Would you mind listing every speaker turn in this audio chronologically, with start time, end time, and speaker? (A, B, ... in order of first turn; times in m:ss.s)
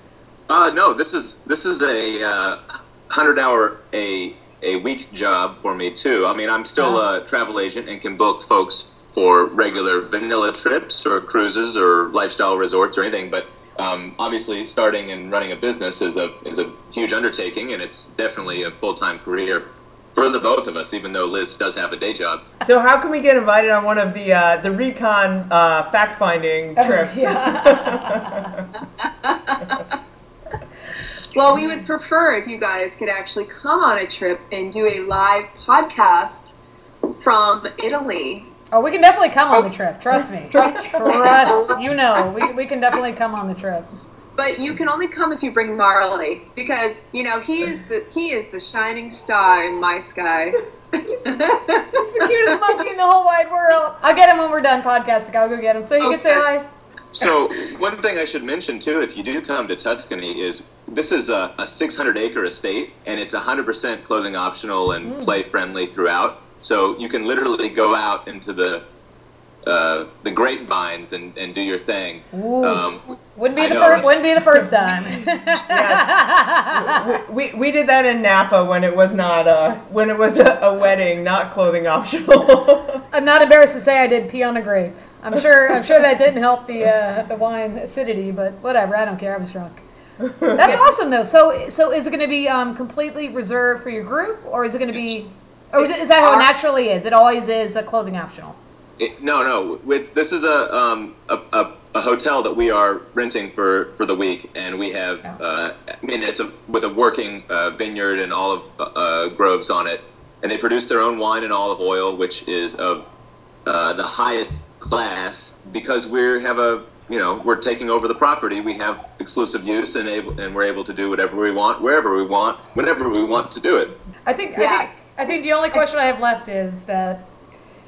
0:00.5-0:22.5 A
0:06.8-0:07.0 B
0:22.6-0:28.7 C
0:26.8-0:28.5 B
0:28.8-0:30.0 D
0:31.3-0:36.5 D
0:37.1-0:38.5 D
0:38.7-0:43.9 B
0:40.6-0:41.8 D
0:44.4-0:52.7 D
0:51.9-0:56.7 B
0:56.0-0:56.4 D
0:57.2-1:08.8 A
1:05.0-1:05.4 B
1:09.7-1:13.0 A
1:12.3-1:17.0 B
1:13.6-1:14.1 A
1:15.6-1:23.0 C
1:23.1-1:29.8 B
1:30.2-1:30.8 C
1:30.5-1:38.6 B
1:35.8-1:36.5 D
1:39.0-1:53.1 A
1:53.6-2:04.0 A
2:04.2-2:07.3 B
2:04.6-2:04.9 D